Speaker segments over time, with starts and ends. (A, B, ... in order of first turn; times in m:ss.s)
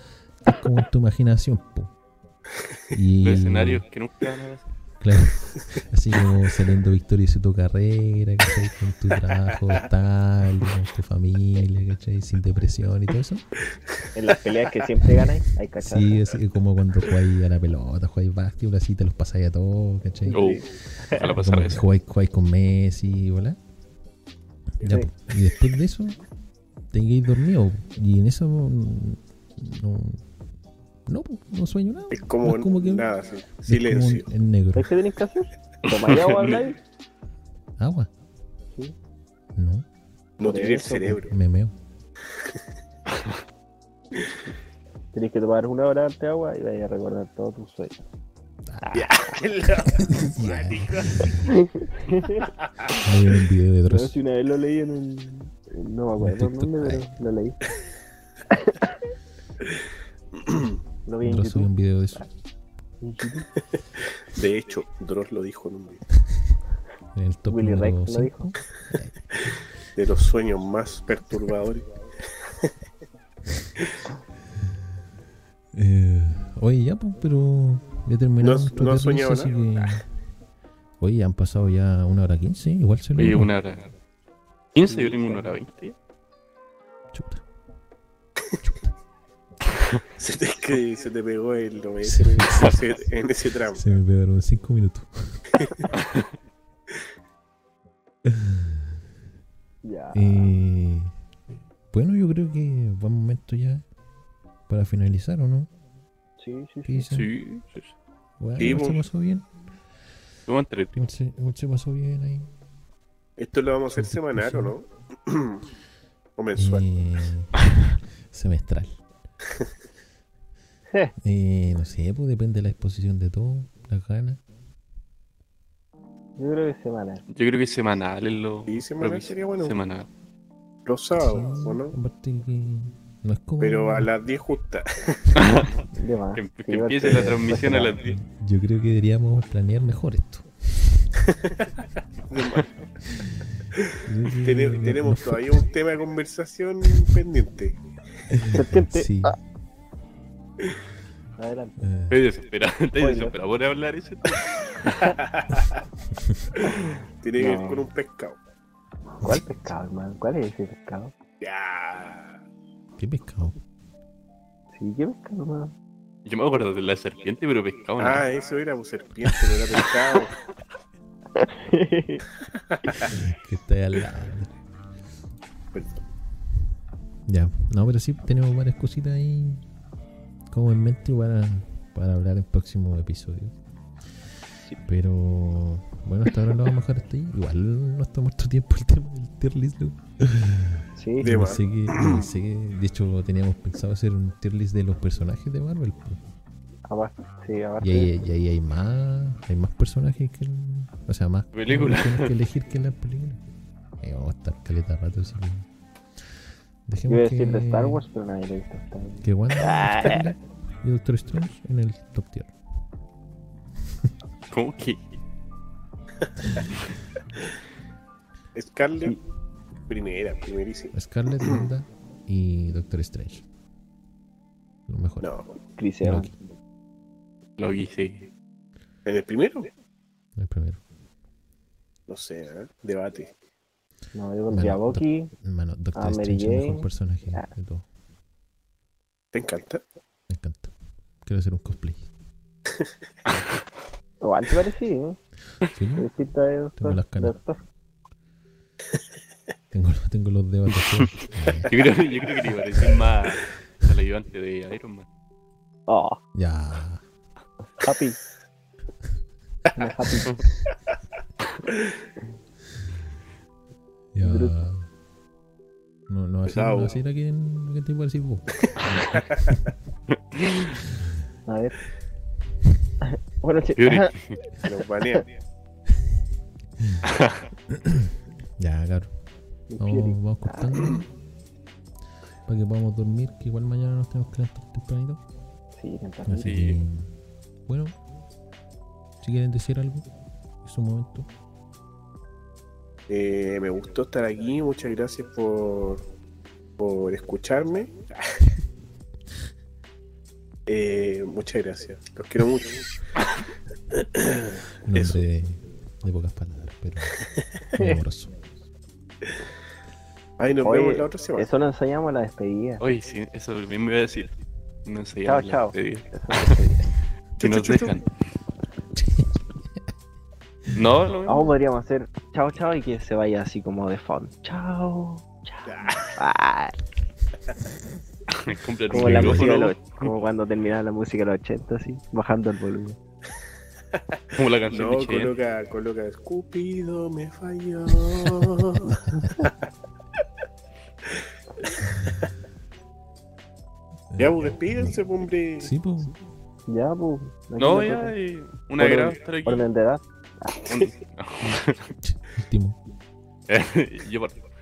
0:00.4-0:01.9 A
0:02.9-0:03.8 A
0:03.2-0:04.7 B
0:05.0-0:13.5 A
0:14.2-0:16.4 C
0:15.8-0:20.5 A
0:20.3-0:21.2 C
0:20.3-0:21.9 B
0:21.2-0:23.6 A
0:24.8-0:26.2 A
0:26.9-0:30.2 A
0:31.1-0:33.1 A
0:32.1-0:34.3 D
0:33.7-0:34.9 A
0:34.7-0:36.8 C
0:37.8-0:38.1 A
0:39.6-0:39.8 A
0:40.4-0:41.3 D
0:40.4-0:41.2 C
0:41.2-0:41.7 A
0:45.1-0:48.0 C
0:48.7-0:49.0 A
0:48.8-0:49.1 C
0:48.9-0:51.4 D
0:49.9-0:51.5 A
0:51.5-0:52.5 C
0:52.8-0:53.1 D
0:53.0-0:54.2 A
0:53.9-0:57.6 C
0:56.2-0:57.1 A
0:58.5-0:59.0 C
1:00.4-1:00.8 D
1:01.1-1:02.3 C
1:01.2-1:02.3 A
1:03.0-1:03.5 C
1:03.8-1:06.0 D
1:07.1-1:09.5 A
1:07.5-1:08.5 C
1:10.0-1:12.7 D
1:15.7-1:20.0 A
1:18.4-1:19.6 D
1:21.0-1:23.5 A
1:23.2-1:23.9 B
1:24.8-1:26.0 B
1:24.8-1:25.5 C
1:27.1-1:27.4 A
1:28.6-1:28.9 A
1:30.1-1:33.9 D
1:32.0-1:32.8 A
1:33.8-1:35.6 A
1:35.6-1:35.9 D
1:36.0-1:36.3 B
1:38.3-1:38.9 A
1:39.8-1:40.6 C
1:40.1-1:41.1 A
1:41.9-1:43.8 A
1:44.7-1:45.7 A
1:46.4-1:47.1 C
1:46.9-1:47.3 A
1:47.1-1:47.9 B
1:48.4-1:49.5 A
1:48.6-1:49.0 D
1:50.5-1:50.9 B
1:50.9-1:52.5 A
1:53.4-1:55.6 D
1:53.9-1:54.7 A
1:56.4-1:56.9 D
1:56.6-1:59.0 A
2:01.2-2:04.4 A
2:06.4-2:07.2 C
2:07.3-2:10.1 B
2:08.7-2:09.8 D
2:10.9-2:12.0 D
2:11.2-2:14.1 A
2:13.6-2:15.4 D
2:15.4-2:15.8 B
2:15.9-2:18.0 C
2:16.4-2:18.2 B
2:17.1-2:21.1 A
2:21.4-2:21.7 D
2:22.3-2:22.7 D
2:23.1-2:25.5 A
2:24.4-2:27.8 D
2:28.3-2:29.4 A
2:28.5-2:29.4 C
2:31.4-2:31.8 C
2:31.8-2:32.2 A
2:32.1-2:35.0 B
2:33.0-2:33.4 C
2:35.2-2:35.8 D
2:36.1-2:36.5 A
2:36.6-2:37.9 C
2:37.2-2:38.4 D
2:39.2-2:41.1 C
2:39.2-2:39.8 A
2:41.4-2:42.3 D
2:43.0-2:43.6 A
2:44.7-2:45.7 C
2:46.2-2:48.2 B
2:48.0-2:50.4 D
2:51.4-2:52.2 C
2:52.5-2:53.1 D
2:53.1-2:54.5 A
2:55.7-2:56.0 D
2:57.3-2:59.7 A
3:00.5-3:03.6 A
3:04.8-3:16.2 A
3:11.0-3:11.3 C
3:11.2-3:12.3 D
3:16.9-3:18.1 C
3:17.8-3:23.4 A
3:21.5-3:22.3 B
3:24.0-3:25.7 A
3:26.9-3:28.0 A
3:27.1-3:30.3 C
3:29.2-3:32.5 A
3:34.5-3:35.2 B
3:38.6-3:39.2 D
3:39.9-3:41.7 D
3:40.9-3:43.4 A
3:44.9-3:45.3 A
3:45.2-3:45.6 D
3:45.8-3:46.3 C
3:46.0-3:46.3 A
3:47.6-3:48.3 B
3:49.1-3:49.7 D
3:50.4-3:50.8 A
3:52.1-3:53.3 D
3:54.1-3:55.3 C
3:54.5-3:57.8 A
3:56.0-3:57.5 C
3:59.3-3:59.8 D
4:00.3-4:00.7 A
4:01.2-4:02.1 A
4:04.2-4:05.2 C
4:05.6-4:06.1 A
4:06.0-4:07.6 C
4:06.8-4:07.4 A
4:09.7-4:11.7 A
4:10.8-4:11.1 B
4:11.7-4:15.1 B
4:15.9-4:16.2 C
4:16.4-4:17.0 A
4:17.8-4:18.2 C
4:19.8-4:20.4 C
4:24.1-4:24.9 A
4:24.2-4:24.6 C
4:26.1-4:29.0 A
4:26.4-4:27.0 D
4:28.7-4:29.5 D
4:30.3-4:30.7 B
4:31.5-4:31.8 C
4:33.0-4:34.1 C
4:33.8-4:34.4 B
4:34.6-4:35.3 D
4:36.8-4:37.1 A
4:37.1-4:37.4 B
4:37.7-4:39.2 A
4:39.7-4:41.0 C
4:39.8-4:41.1 A
4:42.5-4:45.2 A
4:45.8-4:46.7 C
4:46.3-4:47.1 A
4:46.4-4:46.8 B
4:47.7-4:48.0 A
4:49.2-4:50.1 A
4:50.6-4:51.3 A
4:53.1-4:56.0 D
4:56.8-4:58.4 D
5:00.7-5:03.0 D
5:04.0-5:05.2 D
5:04.8-5:07.2 A
5:07.8-5:08.0 C
5:07.8-5:08.4 A
5:10.4-5:11.5 D
5:10.6-5:12.8 C
5:12.8-5:14.3 B
5:14.8-5:16.6 B
5:15.2-5:16.9 C
5:17.4-5:18.0 D
5:17.4-5:18.1 B
5:19.0-5:19.9 A
5:20.7-5:21.6 B
5:21.3-5:26.8 C
5:25.7-5:26.2 D
5:28.3-5:30.1 B
5:28.9-5:33.0 C
5:28.9-5:29.6 A
5:33.9-5:39.5 D
5:34.3-5:35.4 B
5:41.1-5:42.1 D
5:44.1-5:45.0 A
5:44.2-5:45.7 D
5:45.6-5:46.1 A
5:46.7-5:48.1 C
5:47.6-5:49.7 B
5:48.8-5:50.7 C
5:50.7-5:51.9 B
5:52.0-5:52.8 A
5:53.5-5:54.4 B